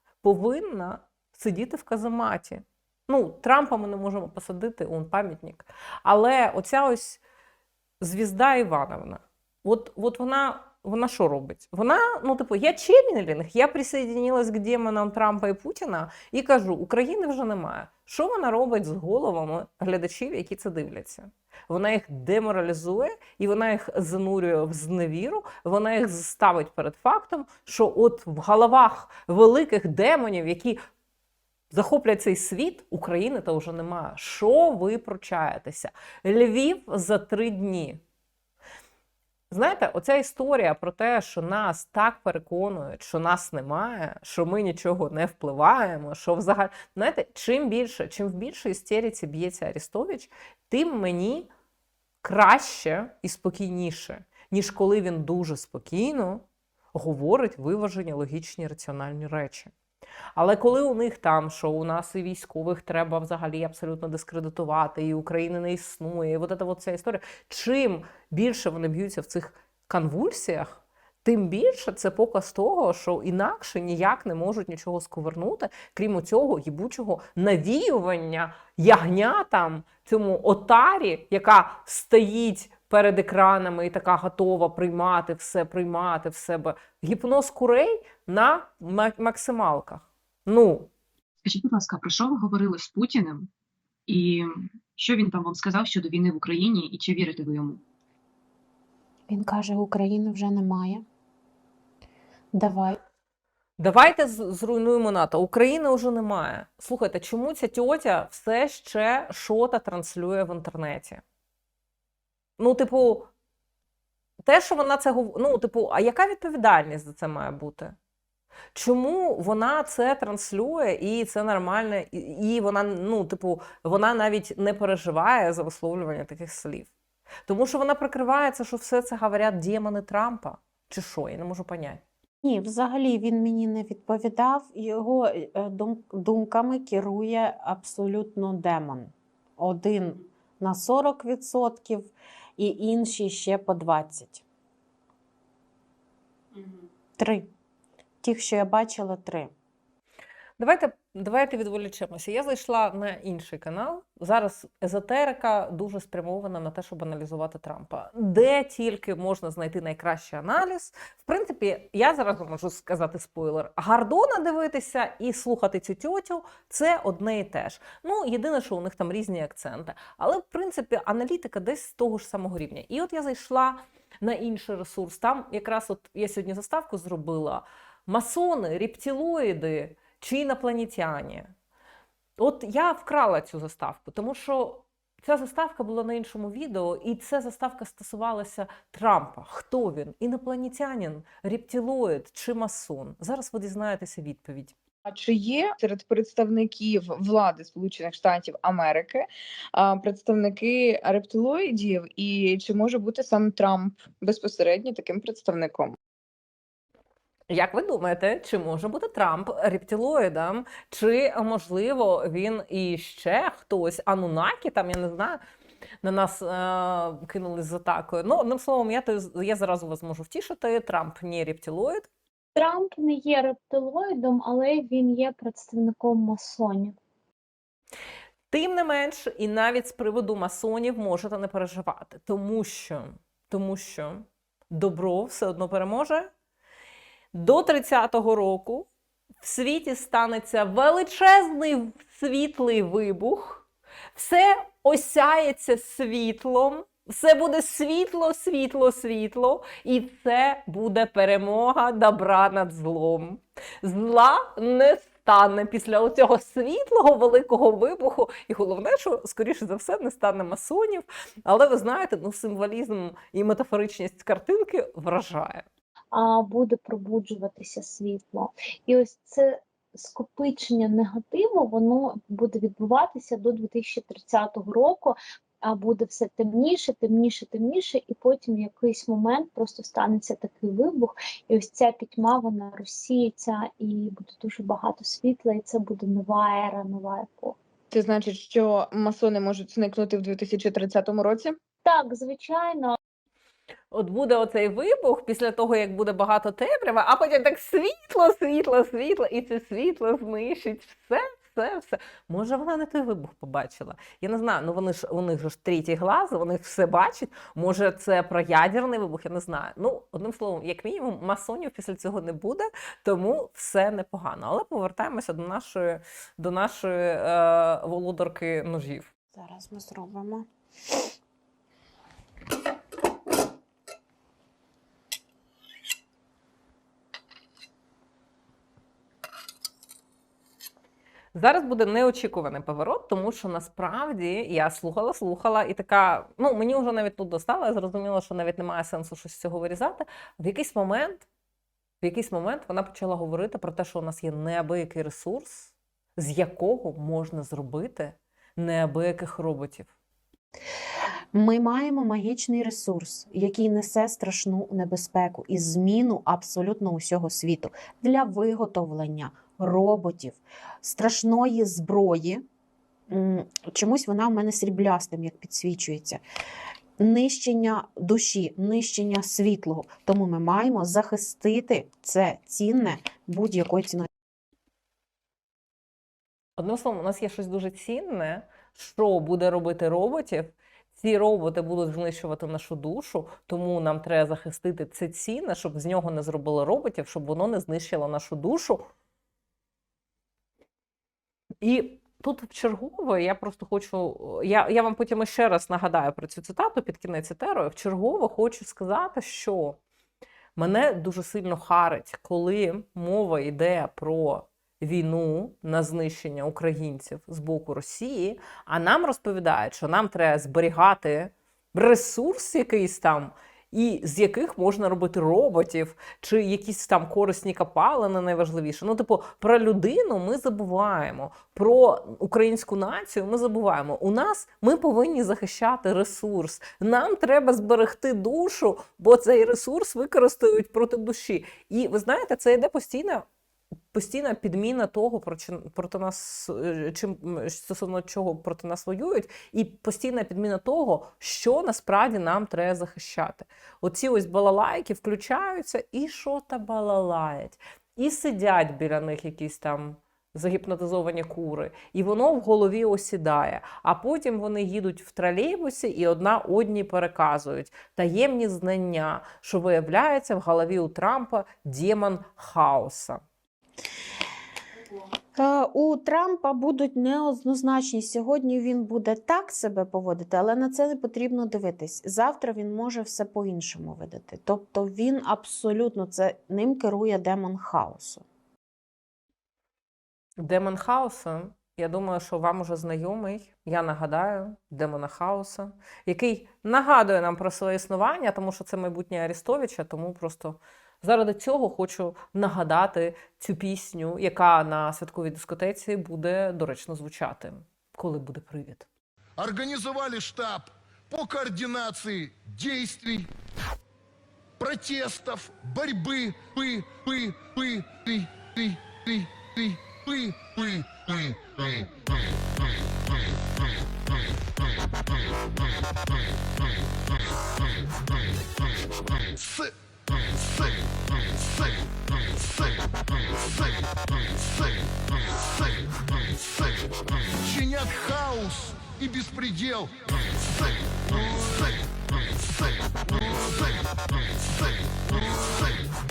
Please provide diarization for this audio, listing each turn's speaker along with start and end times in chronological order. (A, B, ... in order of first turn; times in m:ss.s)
0:00.2-0:07.2 A
0:08.0-0:30.8 A
0:31.7-0:38.0 A
0:39.5-0:51.5 A
0:52.2-0:59.7 A
1:00.4-1:30.9 A
1:31.4-1:33.5 B
1:34.1-1:37.8 B
1:39.3-1:41.0 C
1:42.5-1:43.0 C
1:43.8-1:51.2 A
1:52.6-1:53.3 A
1:54.4-1:58.0 A
1:58.7-2:06.9 A
2:07.5-2:12.0 A
2:12.4-2:24.4 C
2:27.2-2:27.5 C
2:28.2-2:29.5 C
2:30.6-3:01.5 A
3:02.4-3:14.7 A
3:15.1-3:26.0 D
3:27.5-3:35.4 A
3:36.0-3:42.1 A
3:42.6-3:46.9 E
3:48.5-3:56.3 A
3:57.3-3:58.9 A
3:59.4-4:25.7 A
4:26.1-4:47.5 E
4:47.9-4:51.6 D
4:51.8-4:53.0 E
4:53.9-5:19.1 A
5:19.3-5:20.4 C
5:31.3-5:41.2 A
5:42.0-5:49.9 A
5:51.3-6:02.4 C
6:03.1-6:06.2 C
6:07.0-6:14.1 C
6:16.6-6:28.8 A
6:31.6-6:39.8 A
6:40.6-7:13.2 A
7:13.9-7:43.2 A
7:45.4-7:58.2 C
8:00.4-8:18.9 A
8:19.4-8:23.3 F
8:24.6-8:31.9 F
8:39.3-8:44.9 F
8:45.4-8:55.9 F